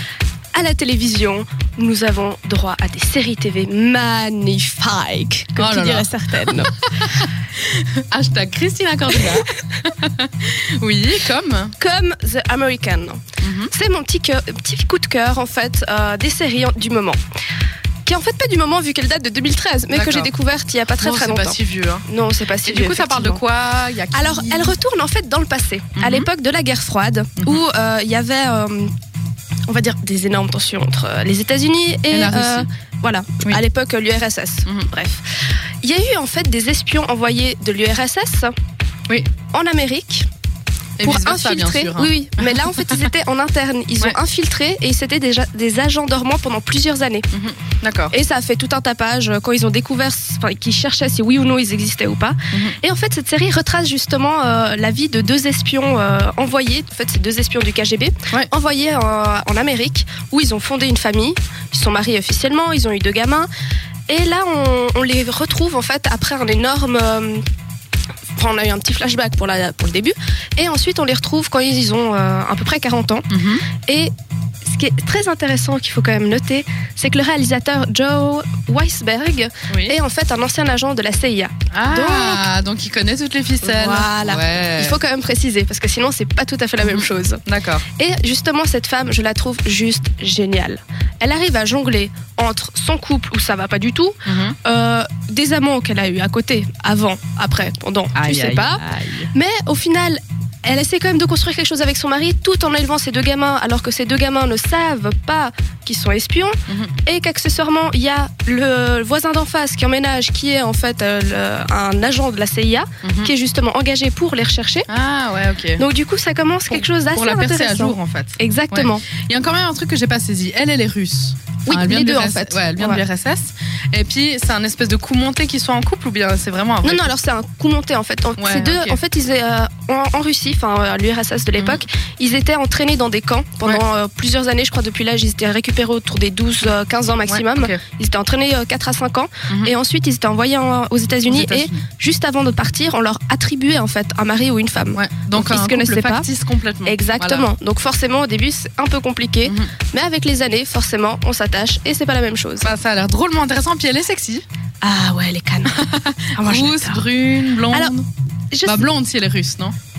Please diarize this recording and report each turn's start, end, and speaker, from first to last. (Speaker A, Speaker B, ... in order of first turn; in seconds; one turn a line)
Speaker A: 0.5-6.7
Speaker B: 5.6-11.8
Speaker A: 11.8-17.2
Speaker B: 13.4-13.7
Speaker A: 18.1-23.4
Speaker B: 19.9-20.3
Speaker B: 21.0-22.1
Speaker B: 22.6-24.8
Speaker A: 24.1-28.9
Speaker B: 26.0-26.3
Speaker B: 27.4-27.6
Speaker A: 29.7-35.2
Speaker B: 32.1-32.7
Speaker A: 35.8-38.5
Speaker A: 39.5-40.3
Speaker B: 41.0-43.1
Speaker A: 41.0-47.3
Speaker B: 47.3-48.1
Speaker A: 48.1-63.5
Speaker A: 64.1-67.4
Speaker A: 68.4-73.3
Speaker B: 73.3-73.7
Speaker A: 73.8-74.1
Speaker A: 74.7-82.5
Speaker B: 79.7-80.0
Speaker B: 81.7-85.0
Speaker A: 83.6-87.4
Speaker B: 86.8-87.8
Speaker A: 88.0-114.9
Speaker B: 94.3-94.6
Speaker B: 98.2-99.3
Speaker B: 106.7-107.0
Speaker B: 113.0-113.3
Speaker B: 114.9-115.8
Speaker A: 115.8-119.1
Speaker B: 116.7-127.1
Speaker A: 121.7-123.0
Speaker A: 126.8-146.3
Speaker B: 128.4-129.0
Speaker B: 131.6-131.8
Speaker B: 137.3-137.8
Speaker B: 139.5-139.7
Speaker B: 141.3-141.8
Speaker B: 144.9-147.5
Speaker A: 146.8-152.7
Speaker B: 149.4-149.7
Speaker B: 152.6-154.4
Speaker A: 154.8-155.8
Speaker B: 155.7-158.1
Speaker A: 156.3-157.1
Speaker A: 158.5-158.9
Speaker B: 158.7-159.8